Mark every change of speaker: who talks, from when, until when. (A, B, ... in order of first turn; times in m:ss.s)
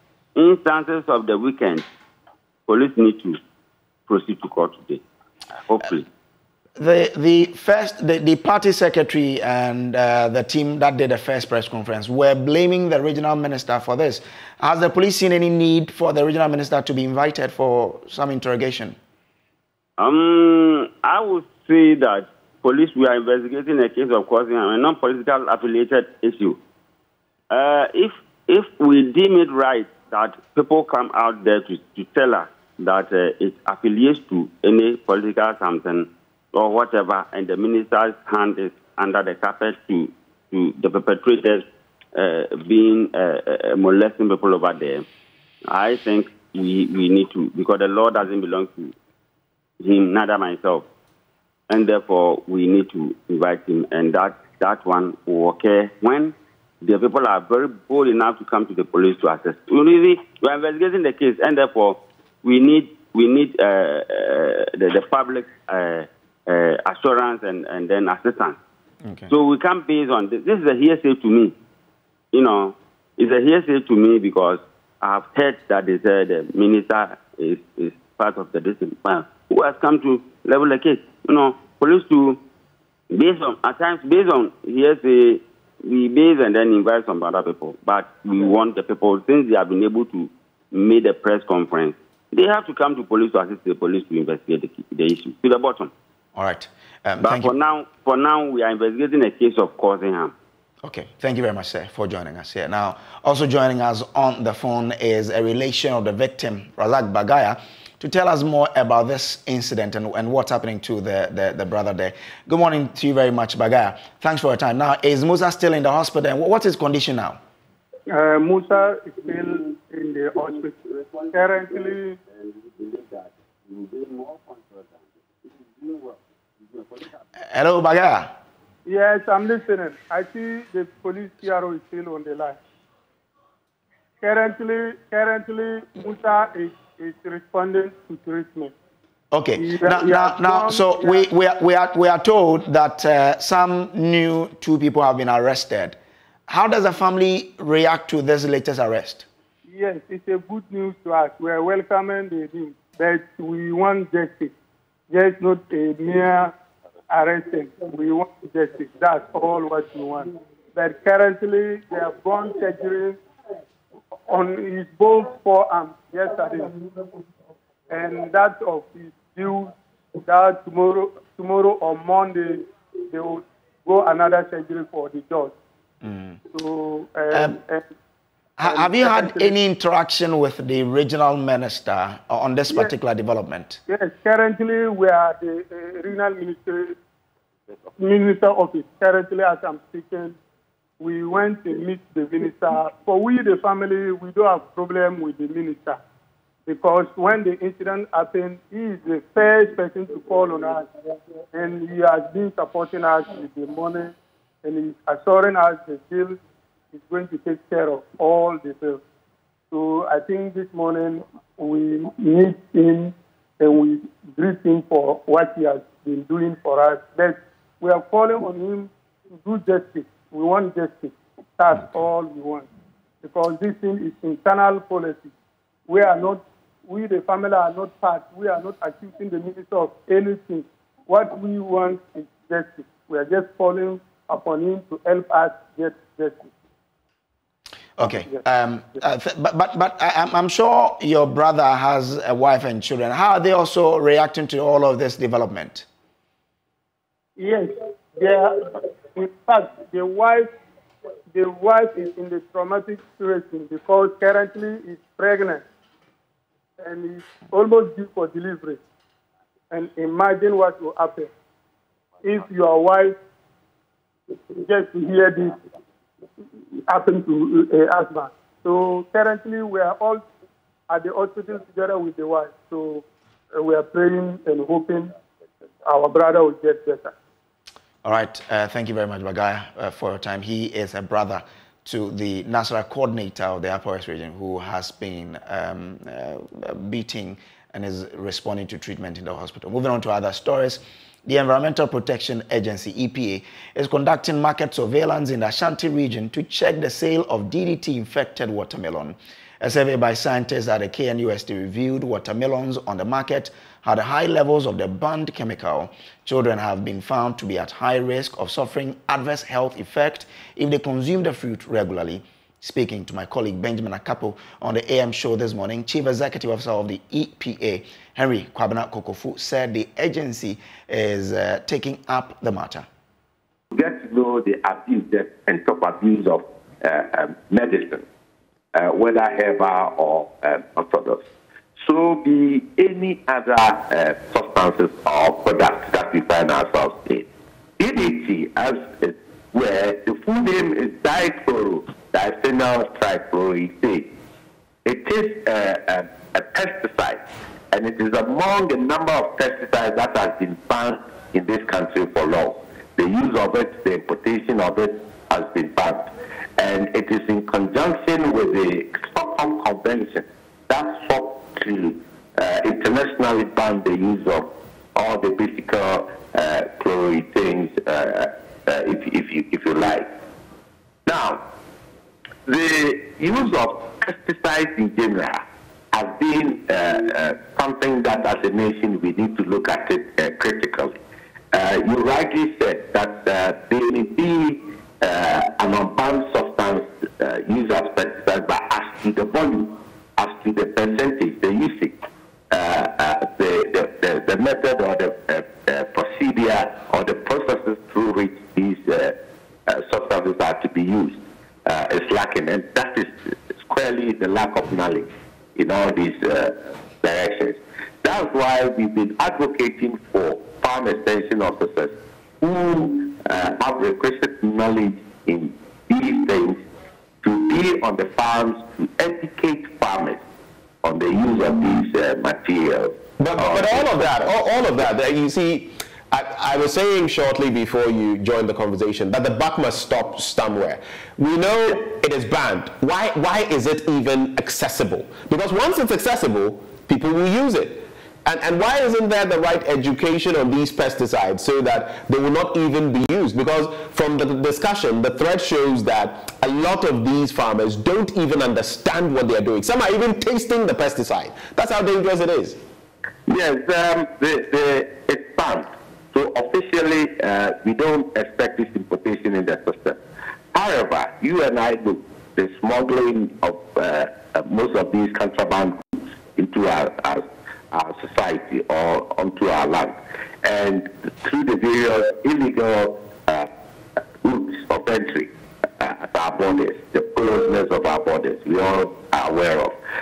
0:00.4-0:01.9 A
0:02.7-0:03.4 A
0:04.1-0:05.0 A
0:05.6-0:06.1 A
0:06.8-0:19.0 B
0:20.0-0:26.6 A
0:27.5-0:45.0 A
0:45.7-0:48.9 A
0:49.8-0:50.9 A
0:51.7-1:08.6 A
1:09.0-1:09.3 B
1:09.3-1:11.6 A
1:12.3-1:22.4 A
1:23.1-1:35.9 A
1:36.4-1:37.5 B
1:37.2-1:40.3 A
1:40.8-1:57.4 B
1:58.1-2:02.2 C
2:07.4-2:08.3 B
2:08.9-2:12.6 C
2:14.2-2:18.7 C
2:19.3-2:29.3 B
2:19.6-2:21.2 C
2:29.7-2:34.5 C
2:35.1-2:36.5 C
2:37.1-2:43.2 C
2:44.3-2:46.9 C
2:47.9-2:55.5 C
2:56.0-2:56.4 B
2:56.5-2:57.9 C
2:57.3-2:57.6 B
2:58.6-3:03.8 B
2:58.6-2:59.5 C
3:03.9-3:07.0 C
3:08.0-3:10.4 C
3:11.0-3:16.0 C
3:16.7-3:26.4 C
3:26.9-3:29.0 C
3:29.7-3:42.7 C
3:43.2-3:45.3 C
3:45.9-3:56.4 C
3:58.0-4:05.9 B
3:58.0-3:58.4 C
4:07.4-4:10.5 C
4:11.3-4:15.6 C
4:16.8-4:18.8 C
4:19.7-4:21.3 C
4:22.2-4:23.2 C
4:24.3-4:25.6 C
4:26.9-4:30.3 C
4:30.9-4:33.0 C
4:33.6-4:35.1 C
4:35.8-4:37.1 C
4:38.0-5:22.9 B
5:23.7-5:28.0 D
5:28.8-5:31.2 D
5:31.8-5:37.3 D
5:37.8-5:44.1 D
5:44.8-6:10.1 D
6:11.1-6:11.4 D
6:12.5-6:21.0 D
6:21.5-6:32.0 D
6:32.5-6:56.6 D
6:57.2-7:00.2 D
7:00.8-7:04.2 D
7:03.2-7:32.6 E
7:33.3-7:40.0 D
7:40.5-7:53.5 D
7:54.2-7:59.8 D